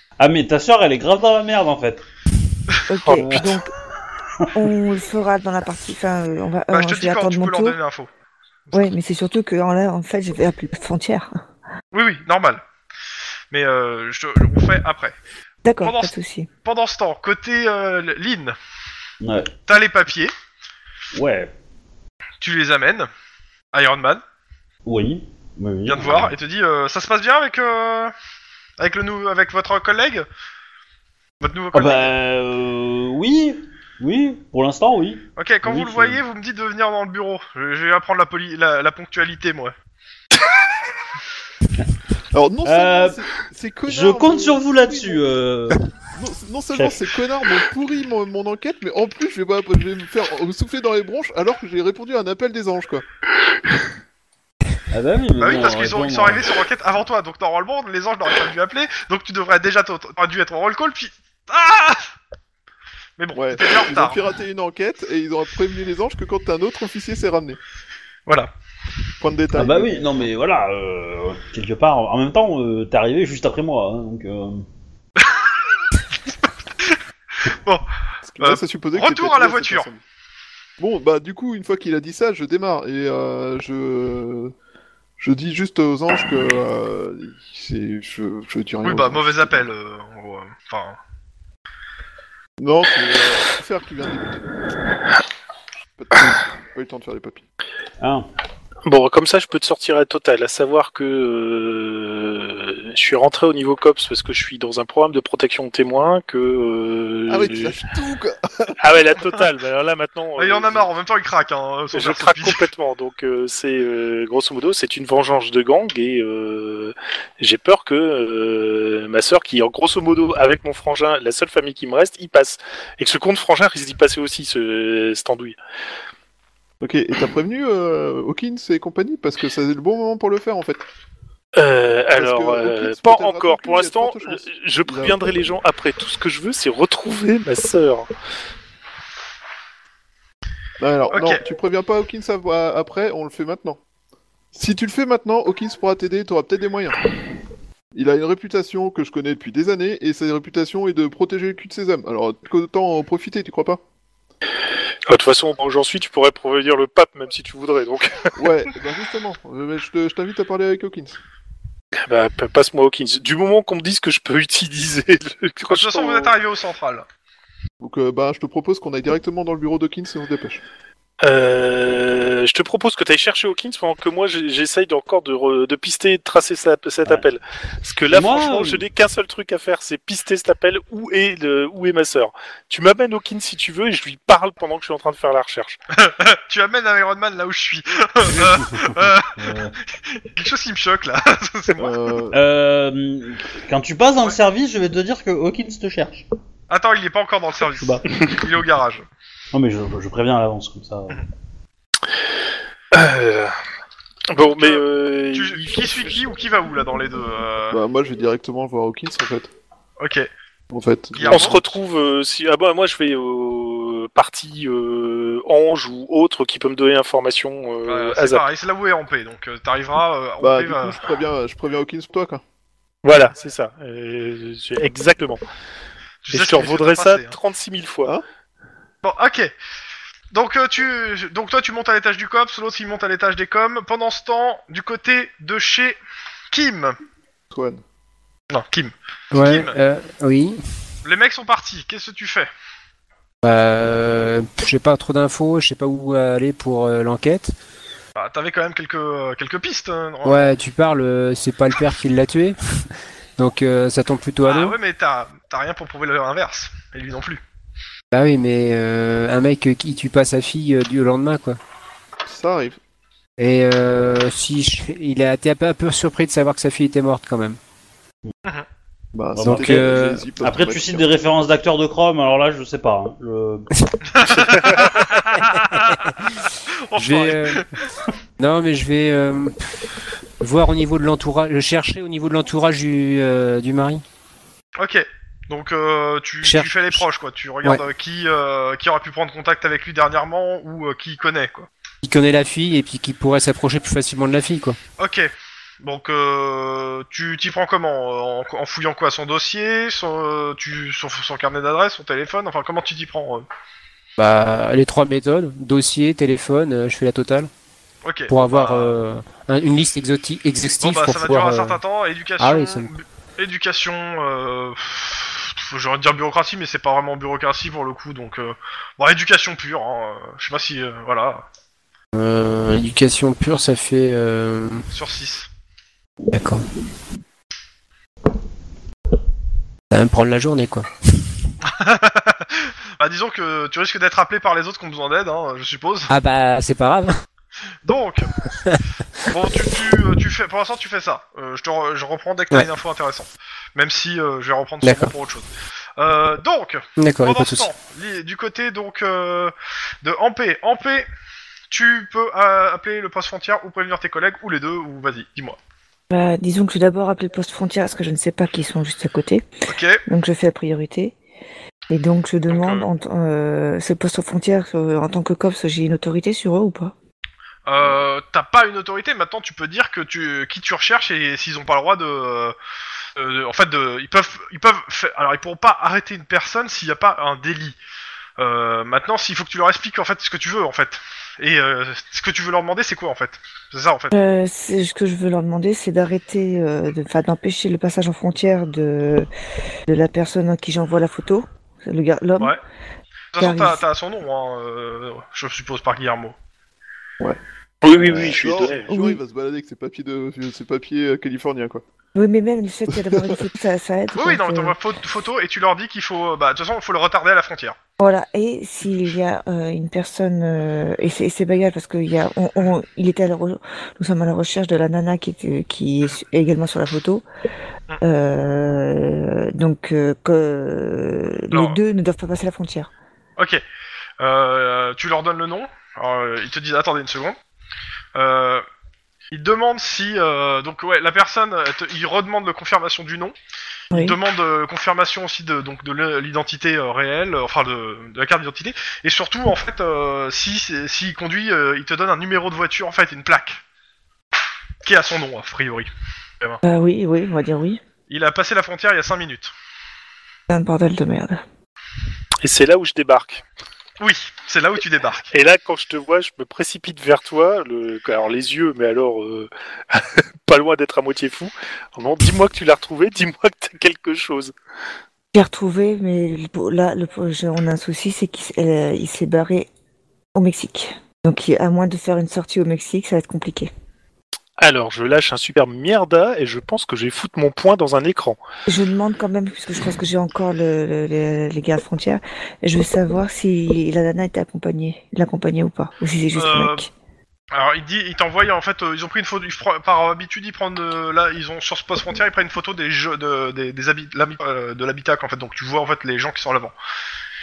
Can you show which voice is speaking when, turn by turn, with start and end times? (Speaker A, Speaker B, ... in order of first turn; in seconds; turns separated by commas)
Speaker A: 0.2-2.0, Speaker B: 2.9-3.7, Speaker A: 3.1-3.5, Speaker B: 4.5-7.8, Speaker C: 6.7-8.1, Speaker B: 8.7-11.3, Speaker C: 11.9-12.6, Speaker C: 13.5-15.1, Speaker B: 15.6-16.5, Speaker C: 15.8-16.1, Speaker C: 16.6-18.5, Speaker A: 19.2-19.5, Speaker C: 19.7-20.3, Speaker A: 21.1-21.5, Speaker C: 22.4-23.1, Speaker C: 23.7-24.2, Speaker A: 24.9-26.3, Speaker C: 25.9-28.1, Speaker C: 28.8-30.2, Speaker C: 31.4-32.1, Speaker A: 31.7-36.2, Speaker C: 35.4-39.7, Speaker D: 42.3-45.2, Speaker A: 42.6-43.2, Speaker A: 43.9-45.8, Speaker D: 46.1-53.0, Speaker A: 46.7-47.0, Speaker A: 54.9-56.5, Speaker C: 55.4-62.1, Speaker C: 63.2-64.2, Speaker D: 63.3-67.6, Speaker D: 69.2-70.2, Speaker A: 69.5-74.7, Speaker C: 77.5-77.8, Speaker D: 78.2-80.0, Speaker C: 78.4-79.9, Speaker D: 80.8-84.5, Speaker D: 85.2-89.7, Speaker C: 88.8-91.0, Speaker D: 92.6-94.5, Speaker D: 96.0-97.4, Speaker A: 98.0-98.3, Speaker E: 98.8-107.8, Speaker D: 107.3-108.8, Speaker E: 108.8-110.9, Speaker C: 110.4-112.7, Speaker E: 111.9-125.6, Speaker D: 126.8-130.8, Speaker E: 131.6-138.1, Speaker D: 132.2-135.2, Speaker D: 140.8-143.8, Speaker C: 141.1-141.4, Speaker D: 144.5-147.0, Speaker D: 147.9-153.8, Speaker E: 155.1-158.3, Speaker D: 158.4-161.2, Speaker E: 162.1-166.3, Speaker C: 165.7-167.1, Speaker D: 167.8-170.6, Speaker E: 171.2-185.8, Speaker A: 178.1-178.8, Speaker C: 185.9-189.5, Speaker A: 188.3-189.7, Speaker C: 190.1-191.9, Speaker D: 191.8-192.4, Speaker A: 192.3-196.2, Speaker C: 196.7-199.1, Speaker A: 197.8-198.1, Speaker A: 199.5-201.2, Speaker E: 202.9-203.6, Speaker E: 204.3-206.2, Speaker C: 204.4-207.8, Speaker D: 207.7-209.5, Speaker C: 210.0-210.3, Speaker D: 210.7-211.5, Speaker C: 211.1-211.6, Speaker E: 211.3-218.4, Speaker C: 217.9-221.0, Speaker D: 220.4-222.4, Speaker E: 223.0-225.4, Speaker C: 226.2-227.3, Speaker E: 226.3-228.1, Speaker C: 229.0-229.5, Speaker C: 230.3-236.0, Speaker C: 236.5-237.0, Speaker D: 237.5-237.8, Speaker C: 238.5-239.8, Speaker F: 239.3-240.6, Speaker C: 241.0-242.5, Speaker F: 243.4-247.5, Speaker C: 248.2-250.6, Speaker F: 250.2-252.6, Speaker F: 253.4-254.8, Speaker C: 254.4-257.4, Speaker F: 258.1-261.6, Speaker D: 262.2-262.8, Speaker F: 263.4-267.6, Speaker D: 269.1-271.1, Speaker A: 269.3-273.7, Speaker F: 269.4-270.2, Speaker C: 274.1-276.1, Speaker F: 275.4-276.3, Speaker C: 276.9-277.7, Speaker F: 276.9-277.6, Speaker F: 278.4-279.6, Speaker F: 280.4-284.0, Speaker C: 284.8-291.7, Speaker F: 286.4-287.0, Speaker F: 292.0-294.8, Speaker C: 295.0-295.3, Speaker C: 295.8-303.4, Speaker F: 304.2-307.5, Speaker C: 308.0-309.0, Speaker F: 308.3-311.8, Speaker C: 310.8-321.5, Speaker F: 312.4-312.9, Speaker F: 322.1-324.9, Speaker C: 324.9-325.5, Speaker F: 326.3-326.6, Speaker F: 329.9-330.9, Speaker C: 331.6-336.1, Speaker F: 336.1-337.1, Speaker C: 337.8-338.3, Speaker C: 339.3-351.1, Speaker F: 344.8-345.1, Speaker F: 347.0-347.7, Speaker C: 351.7-355.6, Speaker B: 356.1-359.4, Speaker C: 359.7-360.0, Speaker B: 360.1-361.1, Speaker B: 361.9-366.9, Speaker C: 362.5-362.9, Speaker C: 367.6-372.5, Speaker C: 373.1-377.8, Speaker C: 378.4-384.1, Speaker B: 384.1-389.3, Speaker B: 389.9-392.6, Speaker C: 393.3-396.4, Speaker B: 393.4-393.8, Speaker E: 397.8-398.9, Speaker D: 397.9-401.8, Speaker B: 398.9-399.2, Speaker B: 402.1-404.7, Speaker D: 402.9-403.4, Speaker C: 404.1-407.7, Speaker B: 408.0-417.2, Speaker B: 418.0-422.9, Speaker C: 421.5-421.8, Speaker C: 423.4-423.6, Speaker C: 424.2-427.4, Speaker C: 428.1-428.6, Speaker C: 429.3-433.3, Speaker B: 433.9-434.2, Speaker C: 433.9-443.6, Speaker C: 444.8-445.9, Speaker B: 446.6-447.8, Speaker C: 448.1-449.5, Speaker B: 450.5-451.4, Speaker E: 452.4-453.4, Speaker C: 454.0-455.3, Speaker E: 455.3-464.5, Speaker B: 465.3-469.7, Speaker B: 470.3-473.7, Speaker E: 474.6-478.4, Speaker B: 478.7-486.9, Speaker C: 486.3-486.9, Speaker C: 487.5-496.7